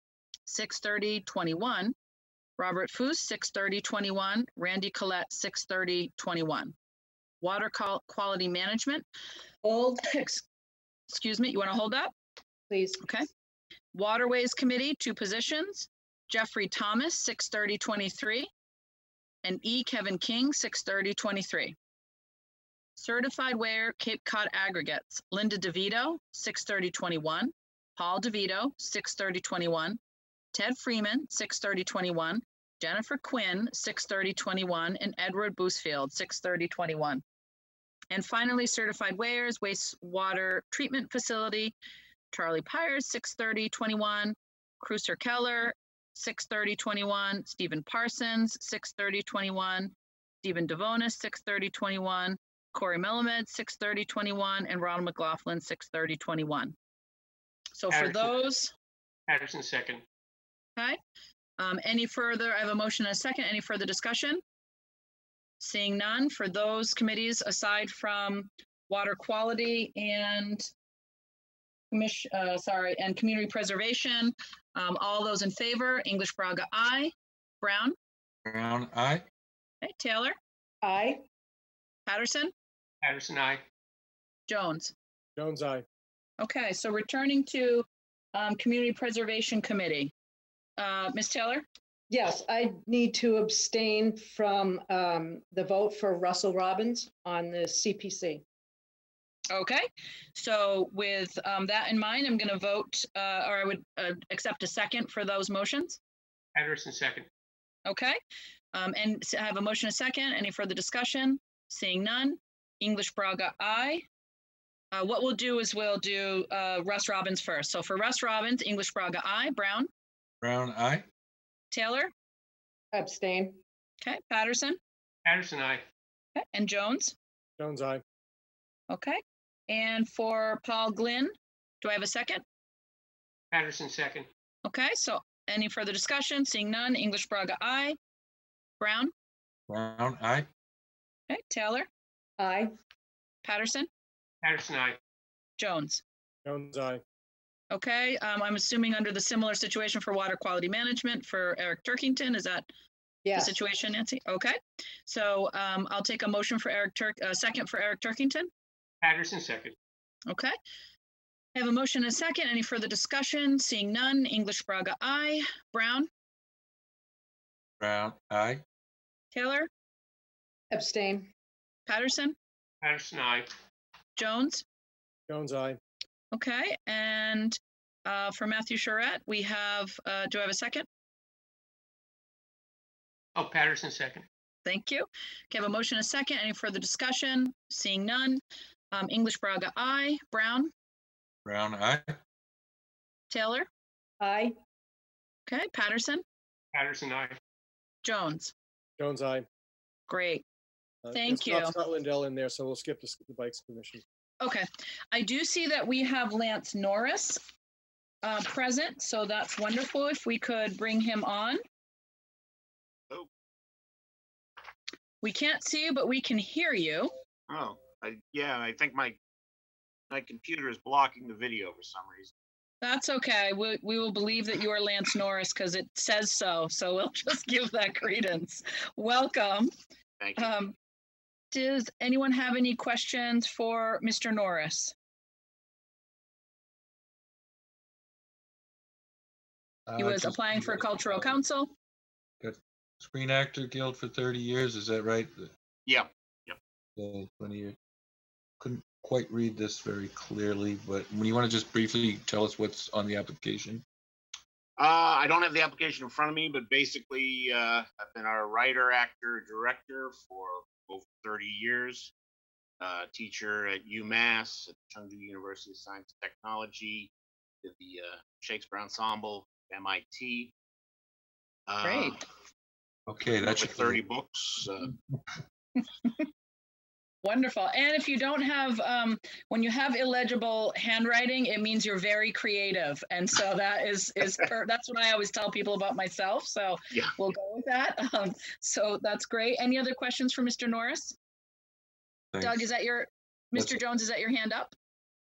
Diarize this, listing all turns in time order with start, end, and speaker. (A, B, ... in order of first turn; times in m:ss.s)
0:00.5-0:01.9 A
0:02.6-0:06.7 A
0:07.4-0:09.1 A
0:09.6-0:10.4 B
0:11.1-0:12.1 A
0:12.7-0:13.0 B
0:13.0-0:13.3 A
0:13.9-0:18.5 A
0:19.4-0:21.8 A
0:23.0-0:30.0 A
0:30.5-0:37.2 A
0:38.1-0:41.7 A
0:42.3-0:56.7 A
0:57.8-0:58.7 A
0:57.9-0:58.3 C
0:59.3-1:00.0 C
1:01.6-1:04.4 A
1:05.6-1:10.7 A
1:11.9-1:18.0 A
1:18.4-1:19.2 D
1:19.8-1:20.4 A
1:20.8-1:21.2 B
1:22.1-1:22.5 A
1:23.0-1:23.6 C
1:24.5-1:24.9 A
1:25.4-1:25.8 E
1:26.4-1:30.1 A
1:30.8-1:31.6 A
1:32.1-1:38.4 B
1:39.5-1:46.0 A
1:46.6-1:47.3 C
1:47.9-1:48.2 A
1:48.7-1:54.0 A
1:54.9-1:59.9 A
2:00.4-2:01.0 D
2:01.7-2:02.1 A
2:02.9-2:03.6 B
2:04.0-2:04.8 A
2:05.3-2:05.8 C
2:06.4-2:07.2 A
2:07.6-2:08.0 E
2:08.9-2:12.4 A
2:13.5-2:14.3 C
2:14.6-2:18.0 A
2:18.8-2:19.1 A
2:19.7-2:20.5 D
2:21.3-2:21.9 A
2:22.4-2:22.7 B
2:23.4-2:23.9 A
2:24.4-2:25.0 C
2:25.6-2:26.0 A
2:26.4-2:27.0 E
2:27.7-2:32.7 A
2:33.2-2:33.6 B
2:33.4-2:38.5 A
2:39.0-2:39.8 C
2:40.3-2:40.5 A
2:41.6-2:46.1 A
2:47.8-2:48.6 D
2:49.3-2:49.7 A
2:50.7-2:51.3 B
2:51.9-2:52.4 A
2:52.8-2:53.6 C
2:54.2-2:54.6 A
2:55.3-2:55.8 E
2:56.3-3:00.9 A
3:03.4-3:04.2 C
3:04.7-3:08.4 A
3:08.9-3:10.7 A
3:11.4-3:12.1 D
3:13.3-3:13.7 A
3:14.2-3:14.6 B
3:15.5-3:16.2 A
3:16.7-3:17.4 C
3:18.0-3:18.5 A
3:19.0-3:19.5 E
3:20.1-3:20.4 A
3:21.0-3:24.0 E
3:21.1-3:21.8 A
3:24.4-3:27.4 A
3:28.2-3:31.6 A
3:35.2-3:37.1 A
3:37.5-3:39.2 F
3:40.1-3:42.3 F
3:42.8-3:49.7 A
3:50.2-3:50.6 F
3:50.4-3:50.7 A
3:51.5-3:54.9 A
3:59.9-4:01.4 D
4:00.0-4:01.7 A
4:02.4-4:05.5 D
4:05.9-4:06.6 F
4:07.0-4:07.8 D
4:08.6-4:13.8 D
4:14.8-4:22.1 F
4:22.8-4:27.1 F
4:27.6-4:30.5 F
4:31.7-4:32.2 F
4:31.8-4:32.2 A
4:33.1-4:34.0 D
4:33.4-4:35.0 F
4:37.2-4:51.2 A
4:52.3-4:52.6 D
4:52.4-4:54.7 A